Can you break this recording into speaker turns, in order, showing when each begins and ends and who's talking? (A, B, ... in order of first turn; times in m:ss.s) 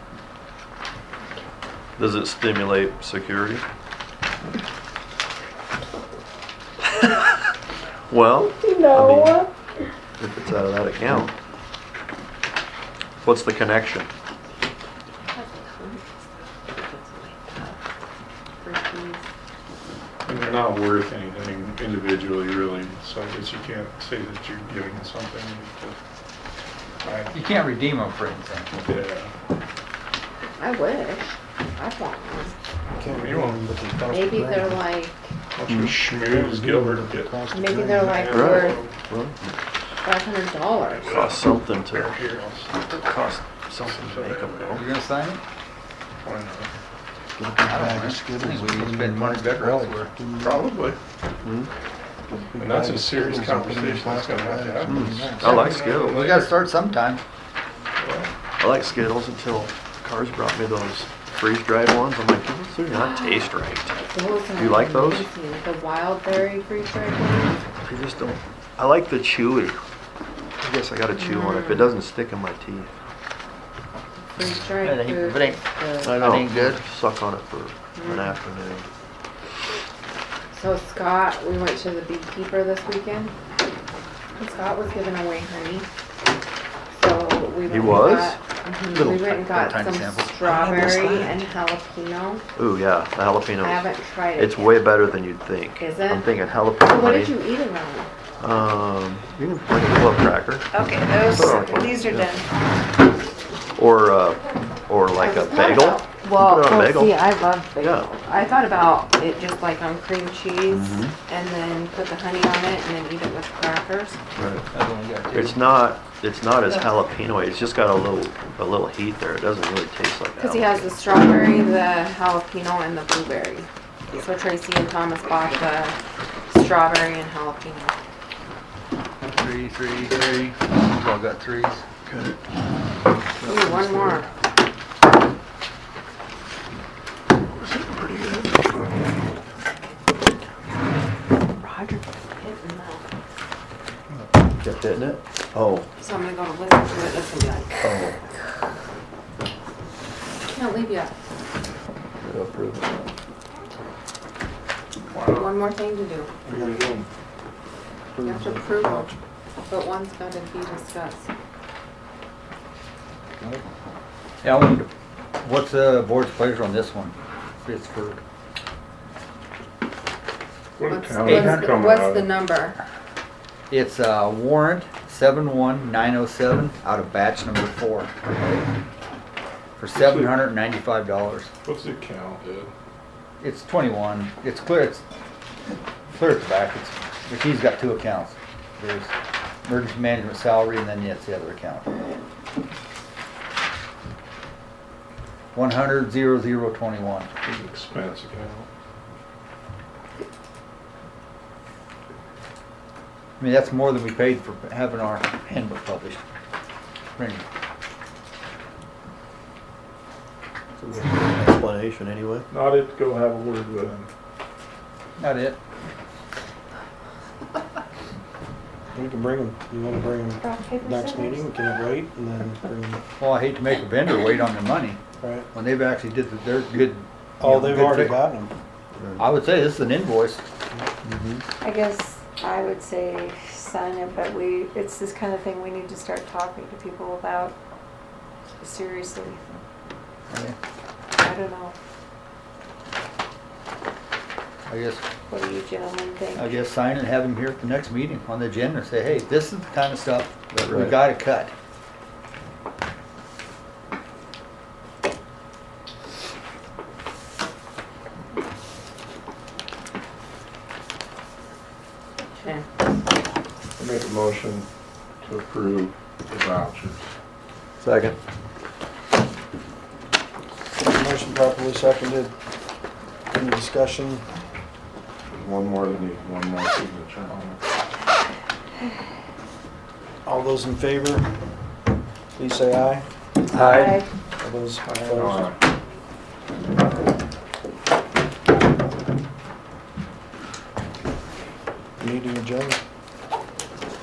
0:02.0-0:03.6 A
0:08.1-0:09.5 A
0:08.4-0:09.5 B
0:10.2-0:11.3 A
0:13.2-0:14.1 A
0:15.3-0:16.0 C
0:16.7-0:17.8 C
0:18.6-0:19.2 C
0:20.2-0:26.0 D
0:27.0-0:27.4 D
0:27.3-0:28.7 E
0:28.8-0:29.3 D
0:30.6-0:32.5 C
0:33.0-0:34.8 F
0:33.1-0:33.6 D
0:34.1-0:35.3 C
0:35.5-0:37.4 D
0:36.0-0:38.3 F
0:37.5-0:38.8 C
0:38.1-0:39.0 D
0:38.3-0:39.5 A
0:40.0-0:41.1 C
0:40.8-0:42.8 D
0:41.1-0:42.2 A
0:42.9-0:44.8 A
0:43.8-0:44.8 D
0:44.8-0:45.4 E
0:46.2-0:46.7 D
0:47.4-0:50.7 F
0:47.7-0:50.1 E
0:50.4-0:51.0 D
0:51.4-0:51.7 A
0:52.3-0:55.8 F
0:52.6-0:56.5 D
0:54.8-0:56.2 A
0:56.1-0:57.2 E
0:58.0-0:58.3 D
0:58.6-1:04.0 A
1:03.0-1:03.4 C
1:04.0-1:07.6 C
1:04.5-1:05.3 A
1:07.8-1:09.8 A
1:10.6-1:12.9 A
1:11.3-1:11.6 C
1:14.3-1:16.1 C
1:14.8-1:16.8 E
1:16.0-1:18.9 A
1:17.9-1:18.3 C
1:20.5-1:23.3 C
1:24.4-1:25.9 C
1:26.9-1:32.4 C
1:27.6-1:28.4 A
1:28.9-1:30.3 E
1:30.4-1:31.3 B
1:32.6-1:37.4 A
1:33.6-1:34.8 C
1:35.8-1:38.1 C
1:38.4-1:40.7 A
1:40.7-1:42.5 B
1:41.2-1:42.4 A
1:41.4-1:42.0 D
1:43.8-1:47.2 A
1:45.2-1:54.2 C
1:47.8-1:48.1 A
1:50.7-1:51.1 A
1:54.4-1:54.6 A
1:54.7-1:55.6 E
1:55.3-2:01.0 A
2:00.4-2:06.0 C
2:06.5-2:07.9 C
2:09.2-2:11.8 E
2:12.0-2:12.4 A
2:13.4-2:14.2 A
2:13.4-2:14.3 C
2:17.6-2:18.9 A
2:21.6-2:23.0 C
2:24.6-2:25.9 A
2:26.0-2:27.9 C
2:27.8-2:28.1 A
2:30.4-2:31.2 C
2:32.2-2:33.1 A
2:35.1-2:35.5 D
2:35.2-2:36.3 C
2:36.4-2:37.0 F
2:38.1-2:39.2 F
2:38.2-2:39.1 C
2:39.7-2:41.3 C
2:44.4-2:48.2 E
2:50.8-2:52.3 D
2:50.8-2:52.8 C
2:51.2-2:51.7 E
2:53.7-2:58.6 E
2:59.8-3:01.5 E
2:59.9-3:00.4 D
3:01.6-3:02.7 D
3:03.4-3:05.0 E
3:06.1-3:09.1 E
3:09.6-3:11.9 E
3:15.5-3:17.3 E
3:17.4-3:18.6 D
3:23.4-3:26.2 E
3:27.2-3:27.4 E
3:30.8-3:32.5 A
3:32.5-3:34.1 D
3:35.2-3:35.6 E
3:38.9-3:43.0 F
3:40.4-3:41.5 B
3:43.2-3:45.0 E
3:45.2-3:45.5 F
3:45.5-3:48.2 E
3:47.4-3:48.5 F
3:49.2-3:50.4 E
3:50.7-3:51.1 F
3:51.6-3:57.5 B
3:58.6-3:59.4 B
4:00.3-4:00.6 E
4:01.1-4:01.7 B
4:04.7-4:05.0 E
4:05.3-4:06.5 B
4:06.3-4:11.5 E
4:10.5-4:10.9 A
4:22.3-4:22.6 C
4:23.8-4:24.6 D
4:25.2-4:27.0 D
4:27.8-4:28.2 A
4:30.8-4:32.3 F
4:33.3-4:34.2 F
4:35.4-4:37.6 D
4:40.2-4:41.3 F
4:42.4-4:43.0 F
4:43.5-4:44.0 E
4:43.5-4:44.0 B
4:44.4-4:45.5 F
4:44.8-4:45.5 D
4:52.0-4:52.8 F